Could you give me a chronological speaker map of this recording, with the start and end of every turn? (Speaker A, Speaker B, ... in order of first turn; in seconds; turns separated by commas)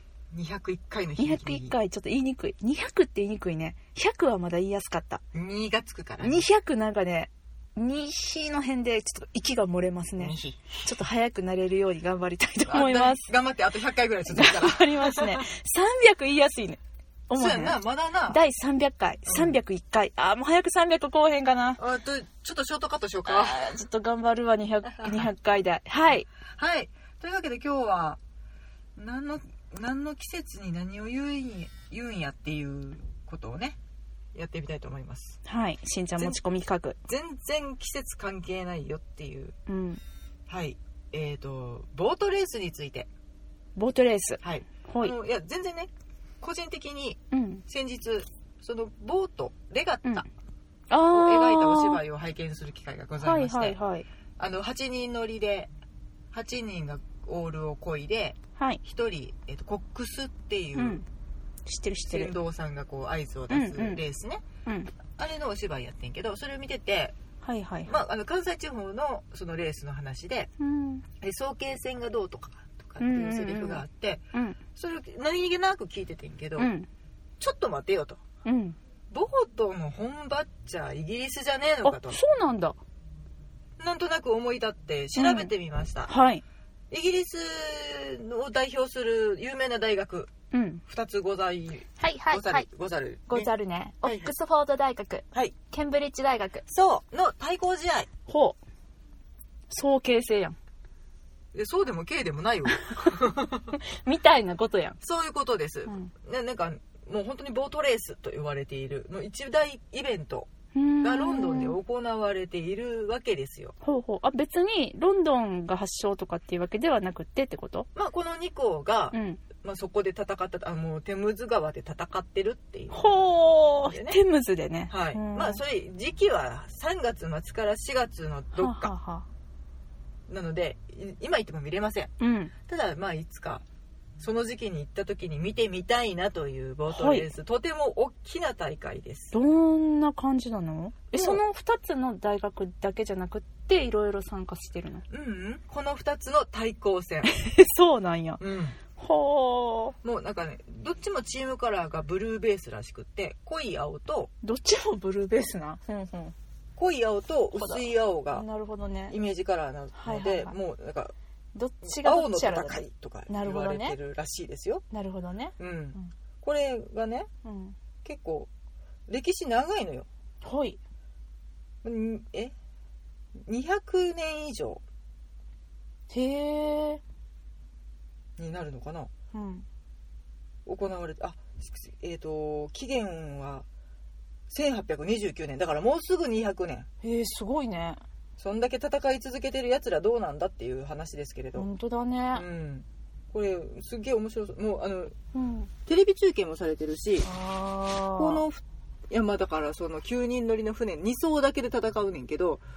Speaker A: 0.3-1.7, Speaker B: 1.2-5.2, Speaker A: 5.3-6.4, Speaker B: 6.2-13.2, Speaker A: 10.2-10.6, Speaker A: 12.7-15.4, Speaker B: 14.3-17.8, Speaker A: 17.3-18.4, Speaker B: 18.3-21.8, Speaker A: 19.3-19.5, Speaker A: 21.8-23.6, Speaker B: 23.2-26.2, Speaker A: 24.9-25.3, Speaker A: 26.5-28.2, Speaker A: 28.9-33.8, Speaker A: 34.3-35.4, Speaker B: 35.4-37.0, Speaker A: 37.1-39.5, Speaker B: 39.7-40.0, Speaker A: 40.5-43.1, Speaker B: 43.8-45.1, Speaker A: 44.4-50.2, Speaker B: 47.3-47.6, Speaker B: 50.9-52.0, Speaker A: 51.1-53.8, Speaker B: 53.2-54.0, Speaker A: 54.4-55.7, Speaker A: 56.3-61.0, Speaker B: 60.8-61.0, Speaker B: 61.6-62.3, Speaker A: 62.1-64.4, Speaker B: 63.5-64.0, Speaker B: 64.6-64.9, Speaker A: 65.1-67.2, Speaker B: 67.4-68.0, Speaker A: 67.8-70.5, Speaker B: 70.6-71.0, Speaker A: 71.2-76.7, Speaker B: 73.0-74.6, Speaker B: 76.6-76.9, Speaker A: 77.4-78.2, Speaker B: 78.4-78.8, Speaker A: 79.1-82.2, Speaker B: 81.8-82.8, Speaker A: 83.8-86.1, Speaker B: 85.2-85.5, Speaker B: 86.0-86.4, Speaker A: 86.9-90.3, Speaker B: 90.5-90.8, Speaker A: 90.9-93.5, Speaker B: 92.0-92.7, Speaker B: 93.3-96.6, Speaker A: 94.0-94.3, Speaker A: 96.7-98.1, Speaker B: 98.3-98.6, Speaker B: 99.7-100.6, Speaker A: 101.5-103.7, Speaker B: 102.8-105.0, Speaker A: 105.0-110.5, Speaker B: 110.7-111.8, Speaker A: 111.0-113.7, Speaker B: 113.8-117.9, Speaker A: 117.9-123.2, Speaker B: 119.1-119.4, Speaker B: 122.9-125.6, Speaker A: 123.8-124.2, Speaker A: 124.9-128.9, Speaker B: 128.5-129.3, Speaker A: 130.3-132.1, Speaker B: 132.2-132.5, Speaker A: 132.6-133.6, Speaker A: 134.2-139.3, Speaker B: 136.9-137.3, Speaker B: 139.3-145.0, Speaker A: 141.1-141.4, Speaker A: 145.1-147.3, Speaker B: 147.2-148.4, Speaker A: 148.4-148.8, Speaker B: 148.9-150.0, Speaker A: 150.0-154.3, Speaker B: 154.4-156.3, Speaker A: 156.8-158.4, Speaker B: 157.5-159.2, Speaker A: 159.1-161.1, Speaker B: 159.9-160.6, Speaker B: 161.5-164.0, Speaker A: 161.9-164.8, Speaker B: 164.9-166.1, Speaker A: 165.6-167.3, Speaker B: 167.4-167.8, Speaker A: 168.0-168.5, Speaker A: 169.1-170.1, Speaker B: 170.4-170.8, Speaker A: 171.8-172.5, Speaker A: 173.4-174.8, Speaker B: 176.1-177.0, Speaker A: 178.4-179.1, Speaker B: 179.3-179.6, Speaker A: 180.7-183.7, Speaker A: 184.5-186.9, Speaker B: 187.0-188.0, Speaker A: 188.4-191.7, Speaker B: 191.5-192.4, Speaker A: 192.3-195.2, Speaker B: 195.3-195.7, Speaker A: 195.8-197.3, Speaker B: 197.2-198.4, Speaker A: 198.2-202.6